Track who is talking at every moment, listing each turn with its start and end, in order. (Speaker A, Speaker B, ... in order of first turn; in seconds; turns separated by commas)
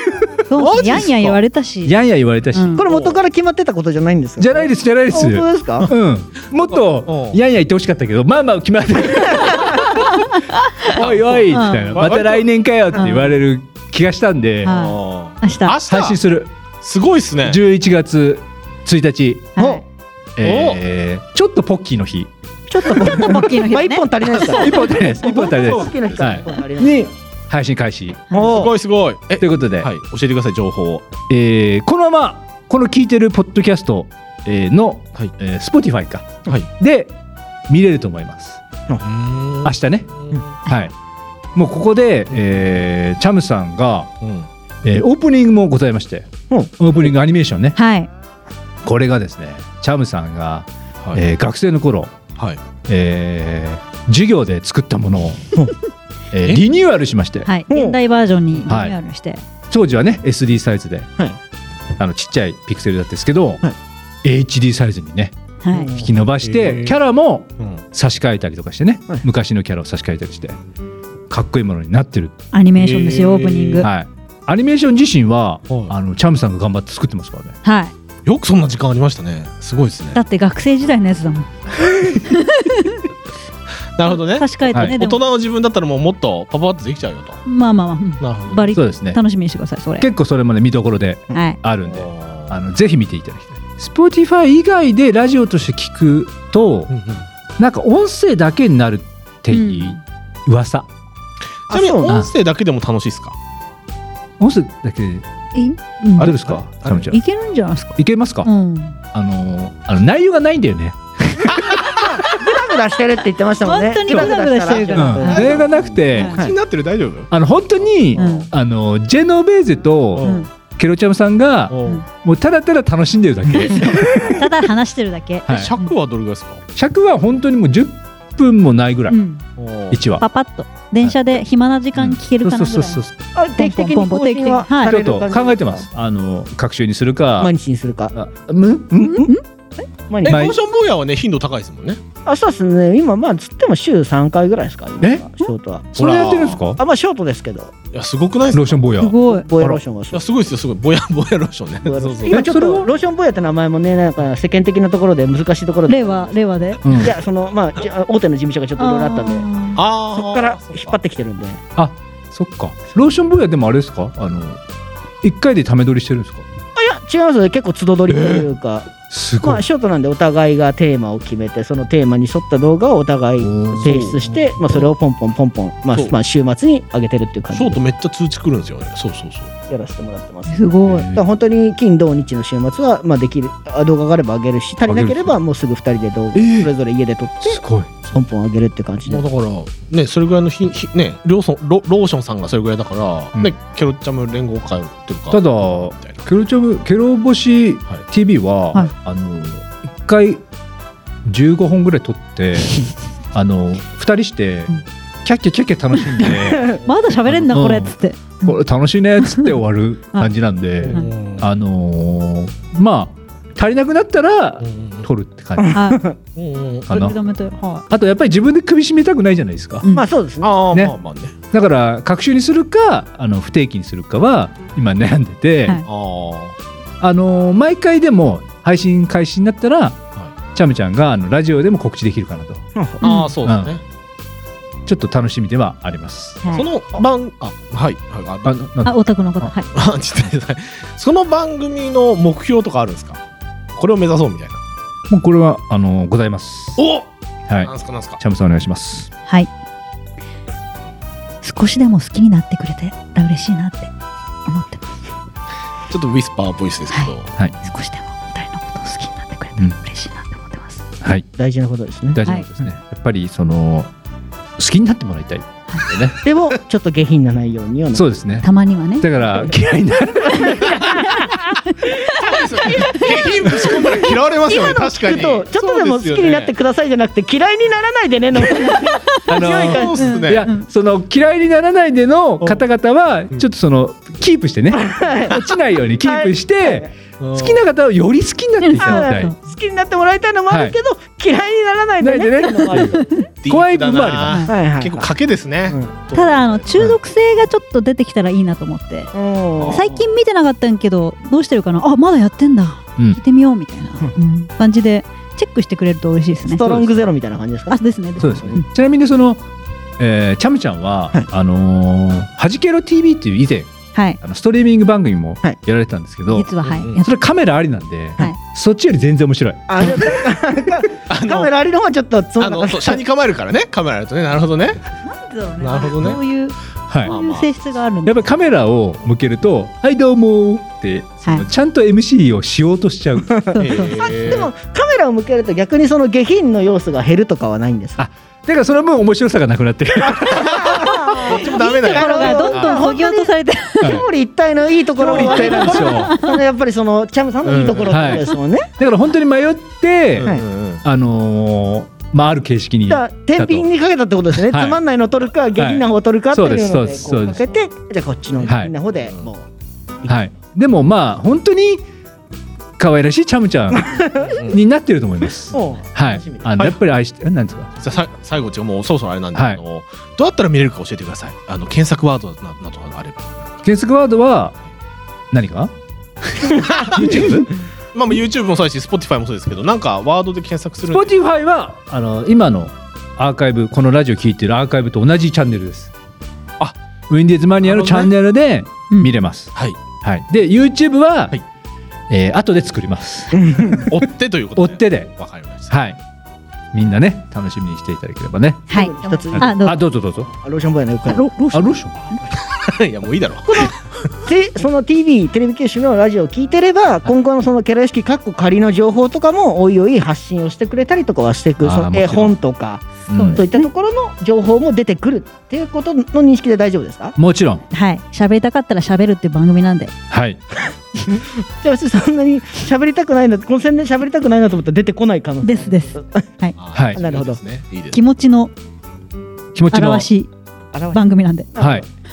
Speaker A: 0.5-1.9, Speaker B: 0.6-1.4, Speaker C: 1.9-2.8, Speaker A: 2.5-2.8, Speaker D: 2.8-5.9, Speaker B: 2.9-3.2, Speaker C: 4.4-10.1, Speaker B: 6.5-7.4, Speaker A: 10.2-10.9, Speaker C: 10.9-14.8, Speaker B: 10.9-12.4, Speaker A: 11.5-12.0, Speaker A: 12.9-13.3, Speaker A: 14.6-15.8, Speaker B: 14.7-16.2, Speaker C: 15.8-16.5, Speaker B: 16.8-17.6, Speaker C: 17.5-19.6, Speaker A: 19.6-19.8, Speaker D: 19.6-19.8, Speaker C: 20.4-22.3, Speaker B: 20.4-20.8, Speaker D: 22.7-27.1, Speaker A: 22.9-24.7, Speaker C: 24.5-28.3, Speaker B: 25.5-26.4, Speaker D: 28.3-28.7, Speaker B: 28.3-31.1, Speaker C: 29.4-29.9, Speaker C: 31.3-37.1, Speaker C: 37.7-38.6, Speaker B: 39.0-40.5, Speaker C: 39.6-40.1, Speaker C: 40.6-40.9, Speaker C: 41.5-44.1, Speaker B: 44.2-44.5, Speaker C: 44.8-47.8, Speaker A: 47.8-48.1, Speaker C: 48.8-52.2, Speaker C: 52.9-55.7, Speaker C: 56.3-57.5, Speaker A: 57.5-59.5, Speaker D: 57.7-58.0, Speaker C: 58.7-59.0, Speaker C: 59.7-61.1, Speaker C: 62.0-63.6, Speaker C: 64.2-65.4, Speaker A: 65.6-65.9, Speaker B: 65.8-67.0, Speaker C: 65.9-70.6, Speaker C: 71.3-72.3, Speaker A: 72.5-73.9, Speaker B: 72.8-73.9, Speaker C: 73.8-77.6, Speaker B: 75.7-75.9, Speaker A: 77.6-77.9, Speaker B: 78.3-80.2, Speaker A: 80.2-81.5, Speaker B: 81.8-82.2, Speaker A: 82.2-83.0, Speaker B: 84.0-87.4, Speaker A: 84.1-85.2, Speaker C: 84.7-85.0, Speaker A: 87.5-90.1, Speaker B: 88.2-88.7, Speaker C: 88.7-89.2, Speaker C: 90.0-96.9, Speaker A: 91.3-91.6, Speaker B: 91.9-92.5, Speaker B: 96.9-97.2, Speaker C: 97.6-100.9, Speaker A: 99.5-100.0, Speaker B: 101.7-103.4, Speaker D: 101.7-102.2, Speaker C: 104.4-105.3, Speaker A: 105.5-106.3, Speaker C: 106.2-107.2, Speaker B: 106.2-107.1, Speaker A: 107.1-109.0, Speaker C: 108.0-108.5, Speaker C: 109.1-111.8, Speaker D: 112.0-116.5, Speaker A: 113.6-116.3, Speaker C: 114.1-114.3, Speaker C: 114.9-116.4, Speaker B: 115.3-117.3, Speaker C: 117.3-124.5, Speaker B: 118.0-118.5, Speaker A: 118.2-118.5, Speaker B: 120.2-120.5, Speaker A: 120.2-120.5, Speaker B: 121.7-122.0, Speaker A: 124.2-125.9, Speaker C: 125.5-125.7, Speaker B: 125.5-126.6, Speaker C: 126.8-129.2, Speaker A: 129.1-129.4, Speaker B: 129.6-130.0, Speaker C: 129.9-130.2, Speaker A: 130.2-133.0, Speaker C: 132.0-133.2, Speaker D: 133.4-135.8, Speaker A: 133.6-134.9, Speaker C: 134.8-137.5, Speaker D: 137.4-138.2, Speaker C: 138.1-139.3, Speaker A: 139.0-139.4, Speaker D: 140.1-140.5, Speaker B: 140.2-142.0, Speaker C: 140.3-140.6, Speaker D: 142.3-145.9, Speaker C: 145.0-146.8, Speaker B: 146.0-146.6, Speaker D: 146.8-147.7, Speaker B: 147.9-148.9, Speaker C: 148.5-149.8, Speaker A: 149.0-149.5, Speaker D: 149.1-150.2, Speaker B: 150.1-152.5, Speaker D: 151.8-156.3, Speaker C: 152.3-152.9, Speaker A: 155.9-156.8, Speaker C: 156.8-157.2, Speaker D: 156.9-159.5, Speaker A: 158.8-159.8, Speaker B: 159.8-161.0, Speaker D: 160.1-161.6, Speaker C: 161.8-164.6, Speaker C: 165.2-166.4, Speaker D: 166.8-177.8, Speaker B: 168.1-168.5, Speaker C: 169.1-169.6, Speaker C: 173.4-174.2, Speaker B: 173.8-174.8, Speaker B: 177.5-179.5, Speaker D: 179.7-189.3, Speaker A: 180.5-181.1, Speaker C: 180.8-181.2, Speaker C: 184.9-185.4, Speaker C: 186.3-186.7, Speaker C: 187.4-187.9, Speaker B: 189.1-196.2, Speaker C: 195.3-200.4, Speaker C: 201.3-206.8, Speaker A: 206.7-208.5, Speaker C: 207.5-215.8, Speaker B: 210.8-211.4, Speaker B: 214.6-215.1, Speaker D: 215.6-216.2, Speaker A: 215.7-216.0, Speaker B: 216.4-217.1, Speaker C: 216.9-217.2, Speaker A: 216.9-217.9, Speaker C: 217.9-219.9, Speaker A: 219.8-220.1, Speaker D: 219.9-220.5, Speaker B: 220.4-221.3, Speaker C: 221.5-225.8, Speaker B: 225.9-226.6, Speaker C: 227.0-230.0, Speaker C: 230.6-232.6, Speaker D: 232.8-233.1, Speaker B: 233.0-233.8, Speaker A: 233.0-233.3, Speaker C: 233.4-233.7, Speaker C: 234.9-236.4, Speaker B: 236.5-238.7, Speaker C: 238.4-239.5, Speaker A: 238.8-239.7, Speaker B: 239.7-243.2, Speaker B: 243.8-244.6, Speaker C: 245.1-246.8, Speaker B: 246.8-247.1, Speaker C: 247.5-249.1, Speaker B: 247.6-248.2, Speaker A: 251.4-253.9, Speaker A: 254.5-255.0, Speaker B: 255.9-257.3, Speaker A: 257.6-260.9, Speaker C: 261.0-261.3, Speaker D: 261.4-262.2, Speaker C: 262.1-263.9, Speaker C: 264.6-266.1, Speaker B: 265.9-266.2, Speaker D: 266.2-268.1, Speaker C: 267.9-271.2, Speaker A: 268.4-269.1, Speaker D: 270.3-271.3, Speaker B: 272.0-276.5, Speaker A: 272.6-273.1, Speaker D: 273.4-280.0, Speaker C: 279.3-289.3, Speaker B: 279.4-280.5, Speaker A: 280.0-280.7, Speaker D: 284.7-286.9, Speaker B: 287.2-287.6, Speaker A: 288.6-289.4, Speaker D: 288.8-293.1, Speaker C: 290.5-290.8, Speaker C: 292.0-294.5, Speaker A: 292.7-293.3, Speaker B: 293.4-297.0, Speaker D: 294.5-295.1, Speaker A: 296.1-299.1, Speaker D: 299.1-300.0, Speaker B: 299.6-299.8, Speaker A: 299.7-306.9, Speaker D: 306.5-308.6, Speaker A: 307.7-308.7, Speaker C: 308.2-309.4, Speaker C: 310.0-320.1, Speaker A: 313.9-314.2, Speaker A: 316.3-317.1, Speaker B: 316.6-317.0, Speaker D: 319.7-323.0, Speaker B: 321.1-321.5, Speaker B: 322.4-324.8, Speaker A: 325.0-328.3, Speaker B: 325.6-326.2, Speaker B: 327.1-327.5, Speaker C: 328.1-333.3, Speaker D: 333.3-338.0, Speaker A: 333.5-334.1, Speaker B: 333.6-334.5, Speaker C: 338.0-341.0, Speaker D: 340.3-348.7, Speaker B: 340.6-343.0, Speaker A: 341.4-344.0, Speaker C: 343.8-344.1, Speaker B: 345.0-346.1, Speaker C: 345.0-346.2, Speaker A: 345.5-346.4, Speaker B: 347.4-348.2, Speaker C: 347.9-353.7, Speaker B: 350.1-350.8, Speaker D: 352.9-359.5, Speaker C: 354.4-354.8, Speaker C: 355.6-357.4, Speaker C: 358.5-358.7, Speaker C: 360.1-361.9, Speaker C: 362.8-367.7, Speaker D: 363.8-364.4, Speaker B: 364.2-364.6, Speaker D: 365.5-366.6, Speaker B: 367.8-373.6, Speaker C: 369.4-369.6, Speaker C: 373.6-374.6, Speaker C: 375.3-375.7, Speaker C: 376.3-377.5, Speaker B: 376.7-381.1, Speaker C: 380.9-385.9, Speaker C: 387.1-391.4, Speaker B: 387.6-388.1, Speaker C: 392.1-393.9, Speaker D: 393.3-393.9, Speaker B: 393.7-395.7, Speaker C: 394.6-395.1, Speaker C: 395.7-396.0, Speaker C: 396.7-398.7, Speaker A: 398.7-399.8, Speaker D: 398.7-401.3, Speaker C: 399.3-400.3, Speaker A: 401.1-402.2, Speaker C: 401.5-401.9, Speaker B: 402.3-404.2, Speaker D: 404.2-417.2, Speaker C: 411.6-412.4, Speaker C: 413.1-413.4, Speaker A: 413.1-413.7, Speaker C: 417.2-417.6, Speaker A: 417.7-419.9, Speaker C: 420.1-420.4, Speaker D: 421.1-426.3, Speaker A: 425.4-426.6, Speaker B: 426.6-428.0, Speaker C: 426.7-427.0, Speaker D: 427.0-427.4, Speaker A: 427.9-428.5, Speaker C: 429.6-430.1, Speaker A: 429.7-430.3, Speaker D: 430.7-431.9, Speaker A: 430.9-431.5, Speaker C: 431.6-431.9